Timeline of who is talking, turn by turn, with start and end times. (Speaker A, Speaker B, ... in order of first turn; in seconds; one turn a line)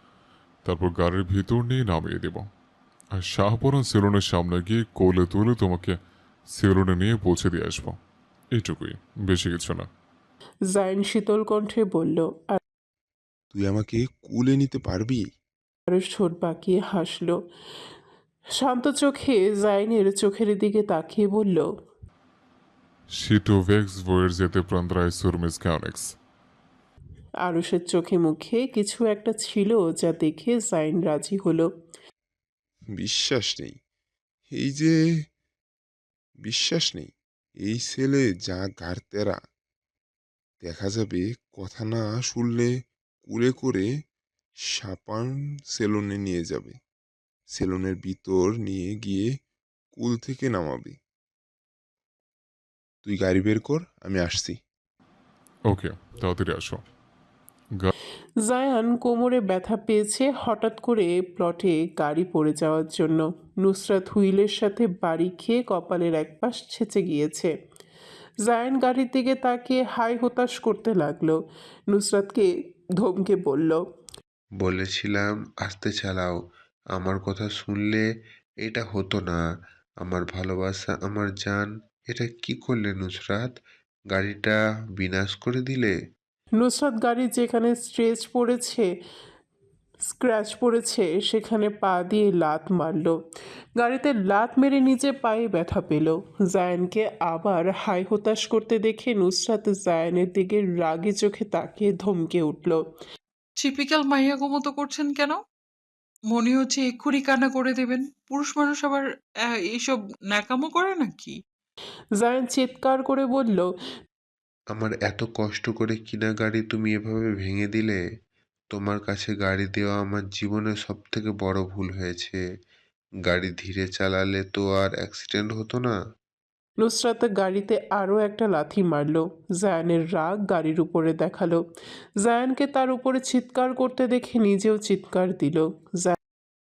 Speaker A: 0.7-2.5
Speaker A: 3.2-6.0
Speaker A: 6.5-8.0
Speaker A: 8.6-9.9
Speaker B: 10.7-12.6
Speaker C: 13.5-15.2
Speaker B: 15.9-17.4
Speaker B: 18.6-21.7
Speaker A: 23.2-26.1
Speaker B: 27.5-31.7
Speaker C: 33.0-33.7
Speaker C: 34.5-34.9
Speaker C: 36.4-37.1
Speaker C: 37.6-39.4
Speaker C: 40.6-42.7
Speaker C: 43.2-43.9
Speaker C: 44.7-46.8
Speaker C: 47.5-49.3
Speaker C: 50.0-51.0
Speaker C: 53.0-54.6
Speaker A: 55.7-56.8
Speaker B: 58.5-67.5
Speaker B: 68.5-71.4
Speaker B: 71.9-72.5
Speaker B: 73.0-73.8
Speaker D: 74.6-76.4
Speaker D: 77.0-78.1
Speaker D: 78.6-79.4
Speaker D: 80.0-83.5
Speaker D: 84.1-86.0
Speaker B: 86.6-88.9
Speaker B: 90.0-93.2
Speaker B: 93.8-102.8
Speaker E: 103.6-105.4
Speaker E: 106.3-109.0
Speaker E: 109.7-111.3
Speaker B: 112.2-113.7
Speaker D: 114.7-118.0
Speaker D: 118.7-122.4
Speaker D: 123.2-126.0
Speaker B: 126.8-131.6
Speaker B: 132.2-136.2